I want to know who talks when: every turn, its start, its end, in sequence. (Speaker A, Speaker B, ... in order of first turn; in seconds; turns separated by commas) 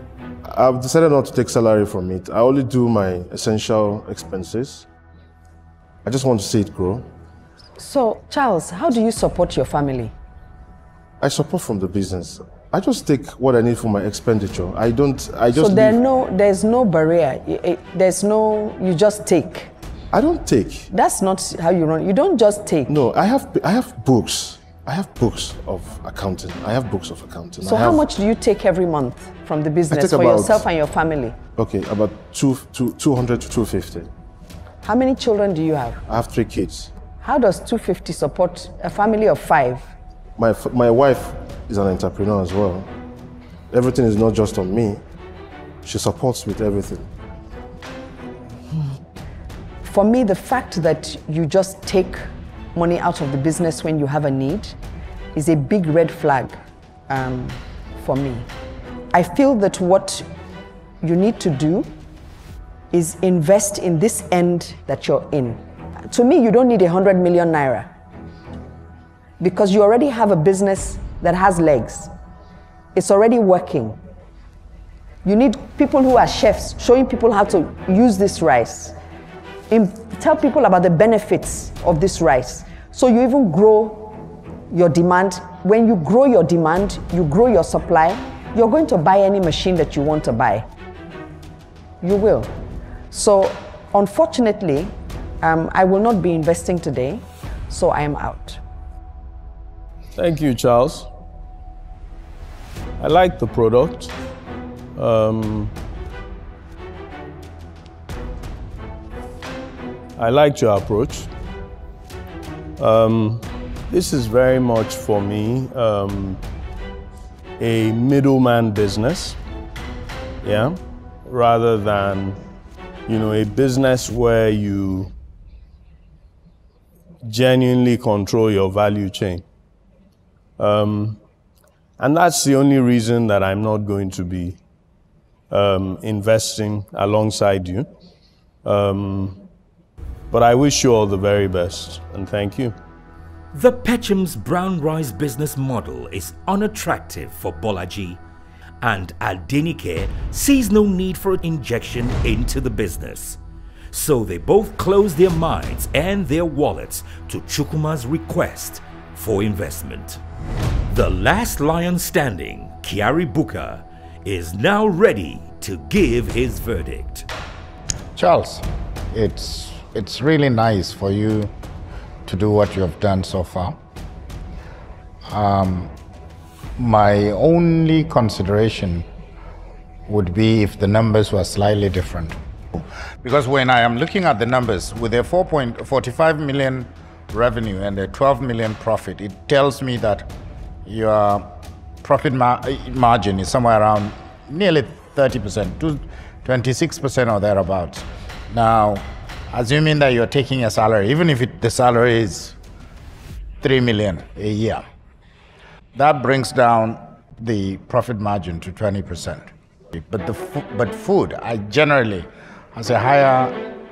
Speaker A: 0.5-4.8, Speaker A: 6.0-7.0, Speaker B: 7.8-10.1, Speaker A: 11.2-16.0, Speaker B: 15.5-19.7, Speaker A: 20.1-20.9, Speaker B: 20.9-23.0, Speaker A: 22.9-28.1, Speaker B: 27.6-31.3, Speaker A: 29.9-30.6, Speaker A: 31.6-34.1, Speaker B: 34.8-36.0, Speaker A: 36.1-36.9, Speaker B: 37.2-39.9, Speaker A: 40.4-42.9, Speaker A: 43.7-45.0, Speaker A: 45.8-47.1, Speaker B: 49.8-54.8, Speaker B: 55.3-56.6, Speaker B: 57.1-58.5, Speaker B: 59.1-60.2, Speaker B: 61.0-61.9, Speaker B: 62.9-67.9, Speaker B: 69.4-72.1, Speaker B: 72.9-74.0, Speaker B: 75.2-79.0, Speaker B: 79.7-90.6, Speaker B: 92.0-92.5, Speaker B: 93.1-98.6, Speaker C: 100.1-101.1, Speaker C: 103.0-104.1, Speaker C: 104.9-105.7, Speaker C: 110.2-111.3, Speaker C: 112.8-116.4, Speaker C: 117.6-119.4, Speaker C: 120.4-122.4, Speaker C: 123.0-125.1, Speaker C: 127.2-129.4, Speaker C: 130.6-131.2, Speaker C: 132.0-134.6, Speaker C: 135.5-137.9, Speaker C: 138.6-139.4, Speaker C: 140.3-142.8, Speaker D: 143.5-148.2, Speaker D: 148.8-153.4, Speaker D: 153.9-160.2, Speaker D: 160.9-167.3, Speaker E: 168.2-171.5, Speaker E: 172.2-173.8, Speaker E: 175.3-175.9, Speaker E: 176.8-179.0, Speaker E: 180.1-190.3, Speaker E: 190.8-191.4, Speaker E: 192.0-202.5, Speaker E: 203.6-204.8, Speaker E: 205.9-213.5